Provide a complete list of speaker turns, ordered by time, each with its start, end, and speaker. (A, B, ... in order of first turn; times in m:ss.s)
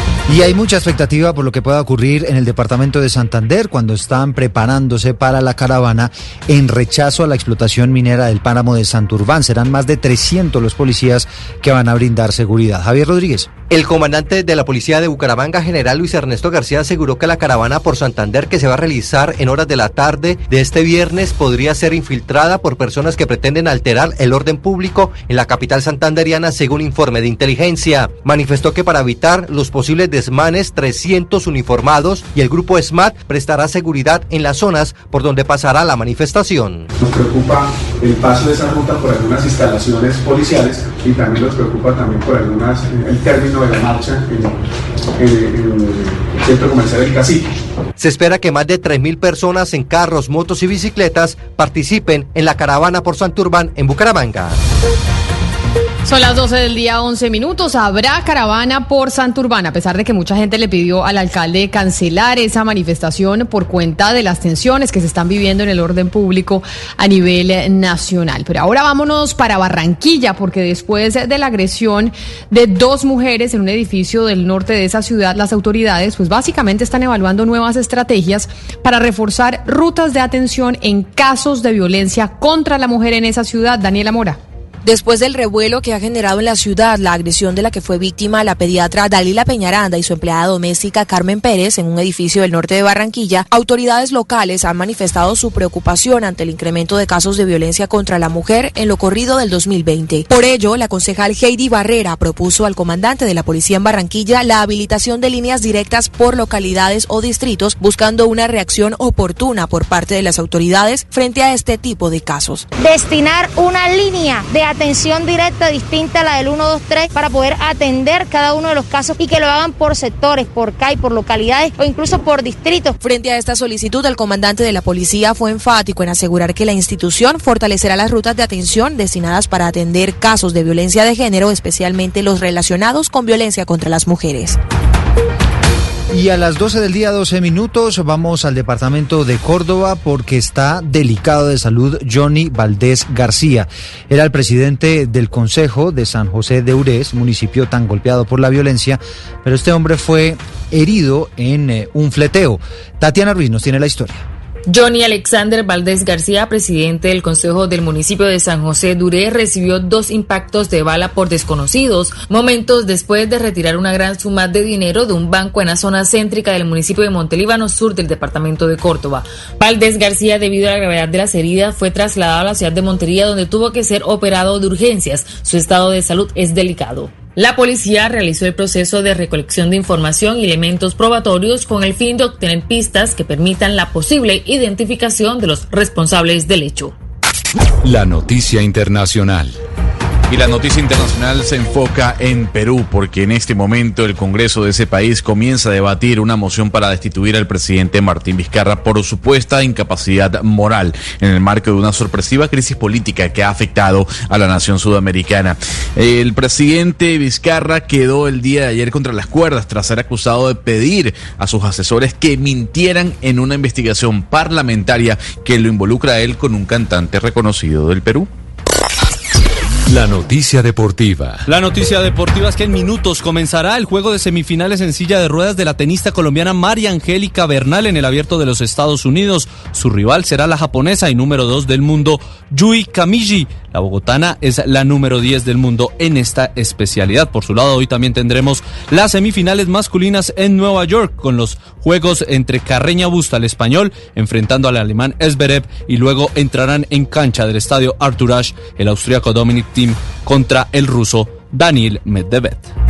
0:00.3-0:13.5 A
0:13.7-0:36.9 B
0:37.0-0:44.5 C
0:45.2-0:47.5 C
0:48.0-0:54.6 B
0:56.0-1:24.4 D
1:24.8-1:52.6 E
1:52.8-2:02.9 F
2:03.0-2:14.6 E
2:16.1-2:34.2 A
2:34.7-3:06.9 G
3:07.8-3:09.5 H
3:10.3-3:38.3 I
3:39.9-3:41.5 H
3:41.5-4:12.7 J